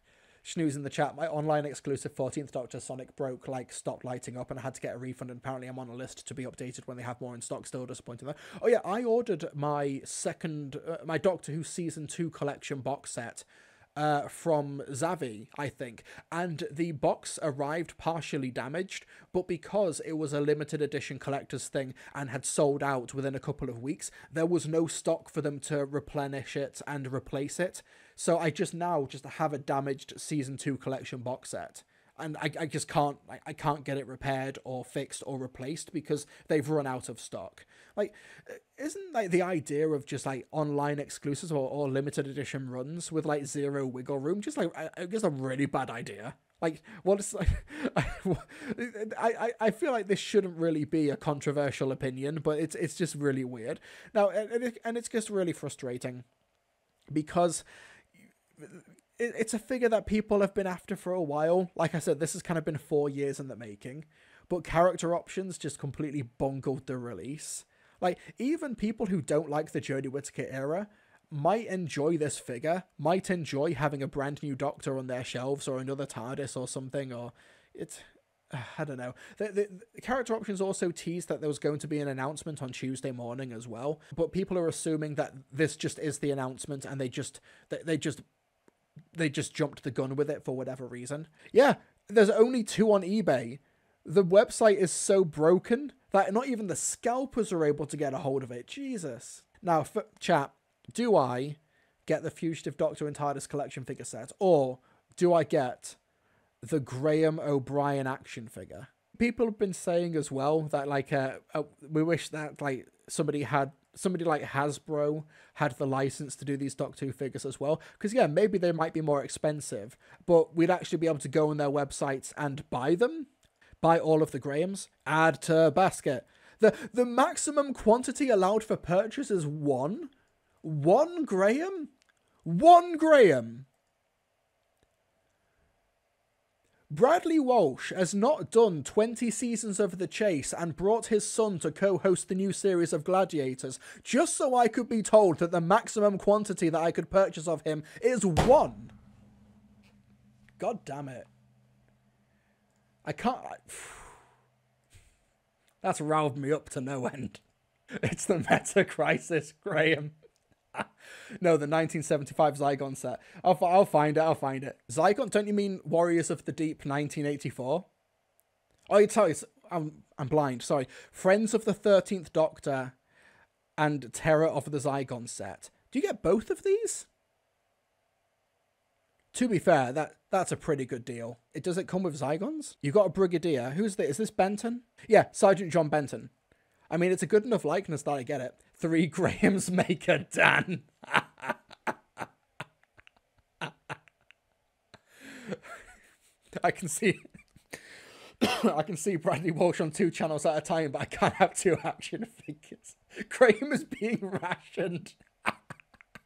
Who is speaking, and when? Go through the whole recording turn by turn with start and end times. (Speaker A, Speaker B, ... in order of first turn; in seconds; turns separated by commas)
Speaker A: 0.4-56.2, Speaker A: 57.1-57.6, Speaker A: 58.6-88.2, Speaker A: 89.1-106.0, Speaker A: 106.6-123.3, Speaker A: 123.8-130.1, Speaker A: 130.6-131.9, Speaker A: 132.4-133.7, Speaker A: 136.9-148.9, Speaker A: 150.6-151.3, Speaker A: 153.0-154.2, Speaker A: 155.8-157.4, Speaker A: 158.0-160.2, Speaker A: 161.4-167.9, Speaker A: 168.9-172.9, Speaker A: 173.8-177.1, Speaker A: 179.3-186.3, Speaker A: 186.9-191.6, Speaker A: 195.3-195.6, Speaker A: 196.6-197.2, Speaker A: 198.4-205.2